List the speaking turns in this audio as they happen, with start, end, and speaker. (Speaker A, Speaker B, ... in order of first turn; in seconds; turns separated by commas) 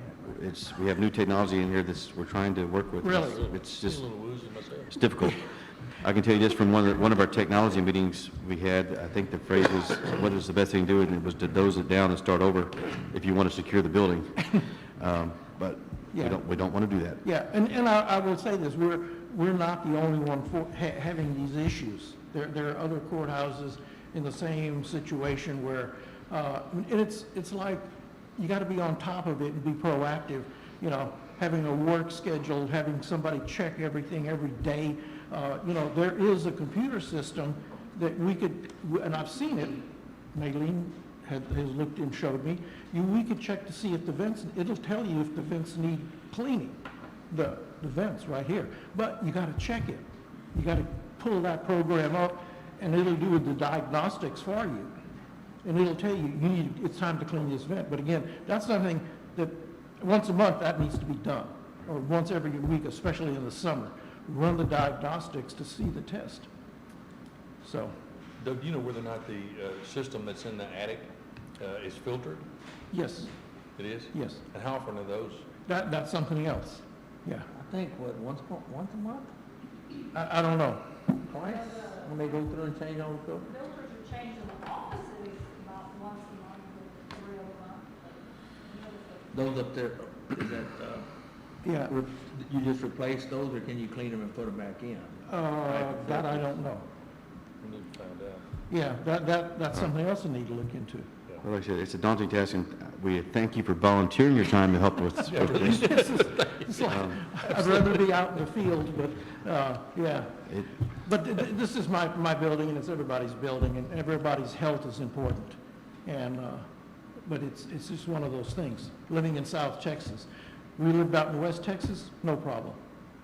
Speaker A: 0.2-4.1, Speaker B: 3.0-3.5, Speaker C: 3.2-5.0, Speaker A: 4.9-17.2, Speaker B: 16.1-16.4, Speaker B: 17.2-27.8, Speaker B: 28.4-46.8, Speaker B: 47.3-54.9, Speaker B: 55.6-66.5, Speaker B: 67.6-67.9, Speaker C: 68.4-72.4, Speaker B: 72.9-73.3, Speaker C: 73.8-75.5, Speaker B: 74.1-74.4, Speaker B: 75.7-77.5, Speaker D: 77.5-79.3, Speaker B: 80.1-80.9, Speaker D: 81.3-83.5, Speaker E: 81.4-82.5, Speaker E: 83.4-89.5, Speaker D: 89.3-91.1, Speaker B: 91.6-92.0, Speaker D: 91.9-95.2, Speaker B: 95.3-96.8, Speaker D: 95.8-96.3, Speaker C: 97.6-98.4, Speaker B: 98.7-101.1, Speaker A: 101.4-105.8, Speaker B: 105.3-116.7, Speaker C: 105.3-106.7, Speaker A: 106.8-107.2, Speaker B: 117.2-122.8